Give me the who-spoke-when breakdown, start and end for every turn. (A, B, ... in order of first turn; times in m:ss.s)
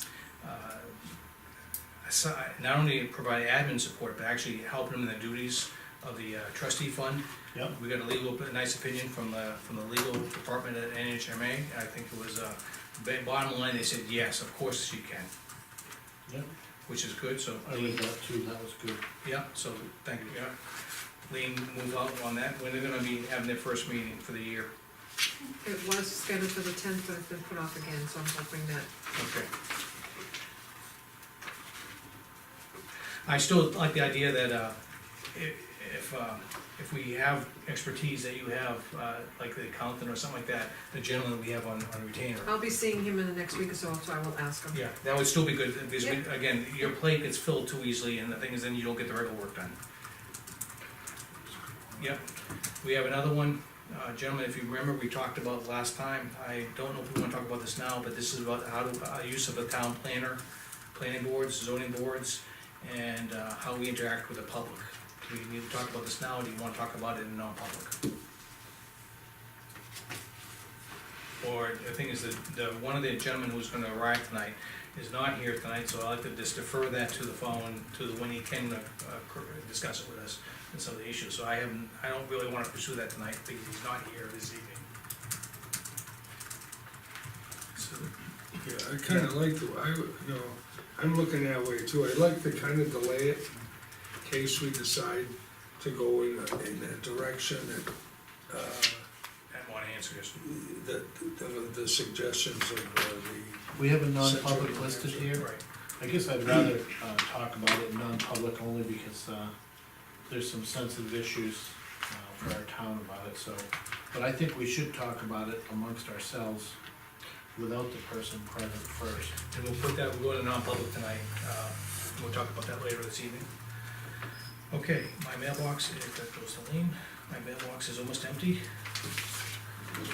0:00.4-0:01.0 A
0:02.0-0:15.3 A
0:16.8-0:18.0 A
0:17.6-0:19.0 B
0:19.2-0:20.5 A
0:21.3-0:24.7 A
0:25.6-0:28.9 C
0:29.1-0:29.5 A
0:33.2-0:34.8 A
0:35.3-0:42.5 A
0:42.4-0:44.8 C
0:44.7-0:49.7 A
0:51.4-0:52.2 B
0:52.8-1:00.4 A
1:00.9-1:07.9 A
1:11.4-1:24.9 A
1:27.8-1:28.1 A
1:28.6-1:33.5 D
1:34.2-1:37.9 D
1:38.5-1:39.0 D
1:39.5-1:40.4 A
1:40.4-1:45.4 D
1:43.8-1:45.5 B
1:45.4-1:45.6 A
1:46.0-1:49.5 B
1:50.3-1:56.8 B
1:57.5-1:59.3 B
1:59.1-2:03.5 A
2:04.7-2:08.6 A